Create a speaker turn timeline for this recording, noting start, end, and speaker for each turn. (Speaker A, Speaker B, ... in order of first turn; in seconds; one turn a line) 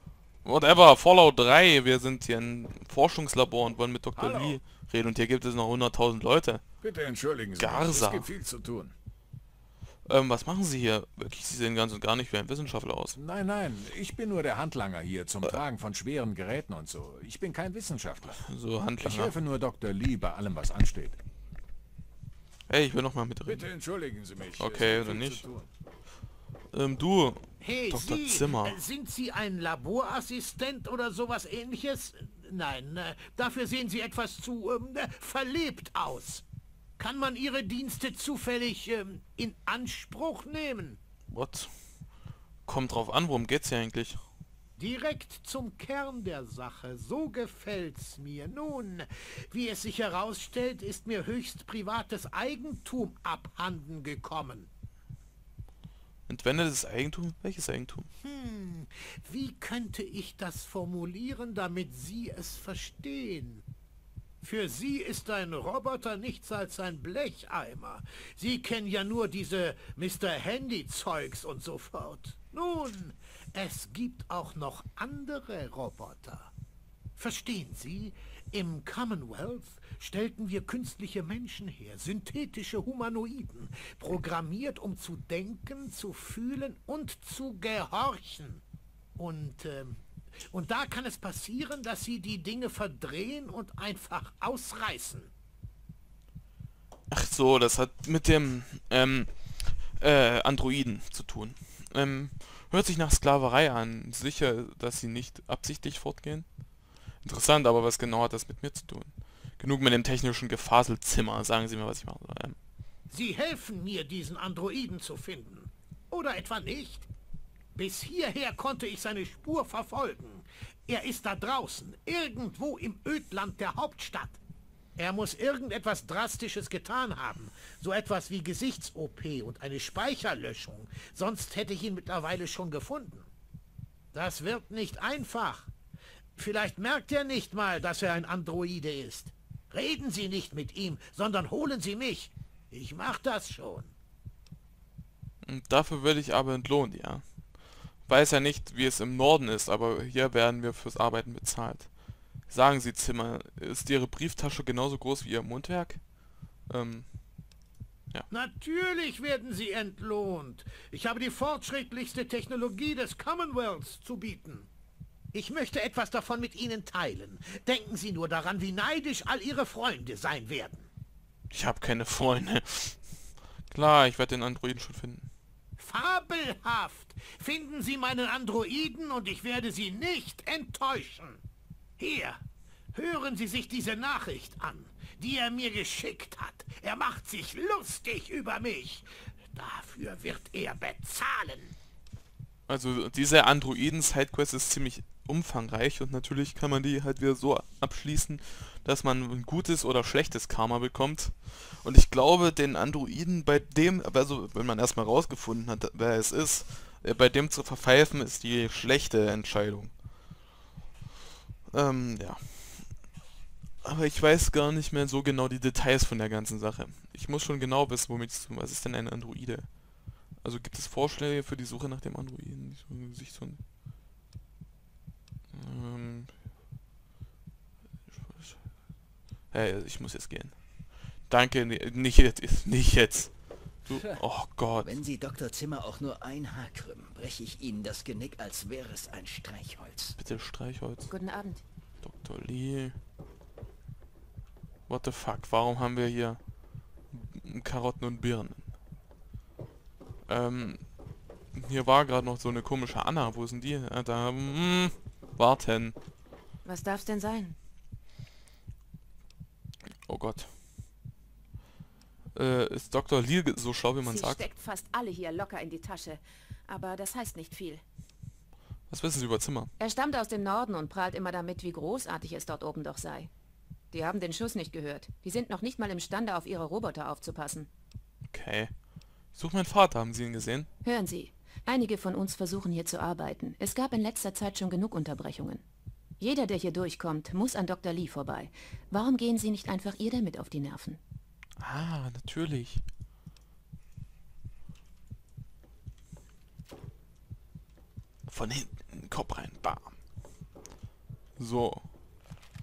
Speaker A: 0.4-6.6
Speaker B: 4.2-4.6
Speaker B: 6.8-8.9
Speaker A: 7.6-8.3
Speaker A: 10.1-13.2
Speaker B: 13.1-18.4
Speaker A: 18.4-19.4
Speaker B: 19.0-21.2
Speaker A: 22.7-23.7
Speaker B: 23.4-25.7
Speaker A: 24.6-25.5
Speaker A: 26.7-28.8
Speaker C: 27.6-36.4
Speaker C: 37.0-41.0
Speaker A: 41.3-41.7
Speaker A: 42.6-44.2
Speaker C: 44.8-54.7
Speaker A: 56.3-58.1
Speaker C: 58.2-63.6
Speaker C: 64.4-76.5
Speaker C: 77.2-88.6
Speaker C: 89.2-95.3
Speaker A: 97.1-106.5
Speaker A: 107.1-112.6
Speaker C: 113.1-117.1
Speaker C: 117.8-124.4
Speaker C: 125.0-133.3
Speaker C: 134.1-135.7
Speaker C: 136.4-143.9
Speaker A: 145.4-157.1
Speaker C: 158.3-164.7
Speaker C: 165.3-170.9
Speaker A: 171.5-175.3
Speaker C: 175.8-181.4
Speaker C: 182.0-182.4
Speaker C: 182.9-191.7
Speaker A: 192.7-209.9
Speaker A: 211.7-213.2
Speaker A: 213.8-223.6
Speaker A: 225.5-226.4
Speaker A: 228.1-228.7
Speaker A: 229.5-235.0
Speaker D: 233.9-234.2
Speaker D: 234.8-240.2
Speaker A: 240.2-241.1
Speaker E: 241.1-241.6
Speaker A: 242.0-243.0
Speaker A: 244.9-248.7
Speaker A: 250.3-251.0
Speaker A: 251.5-256.0
Speaker E: 256.6-257.6
Speaker A: 260.1-260.5
Speaker A: 262.3-264.4
Speaker E: 264.0-267.8
Speaker A: 268.9-269.7
Speaker E: 269.8-273.3
Speaker E: 273.9-277.7
Speaker A: 278.3-280.7
Speaker E: 280.8-285.6
Speaker E: 286.2-291.0
Speaker A: 291.6-292.9
Speaker A: 298.3-299.9
Speaker A: 301.4-301.9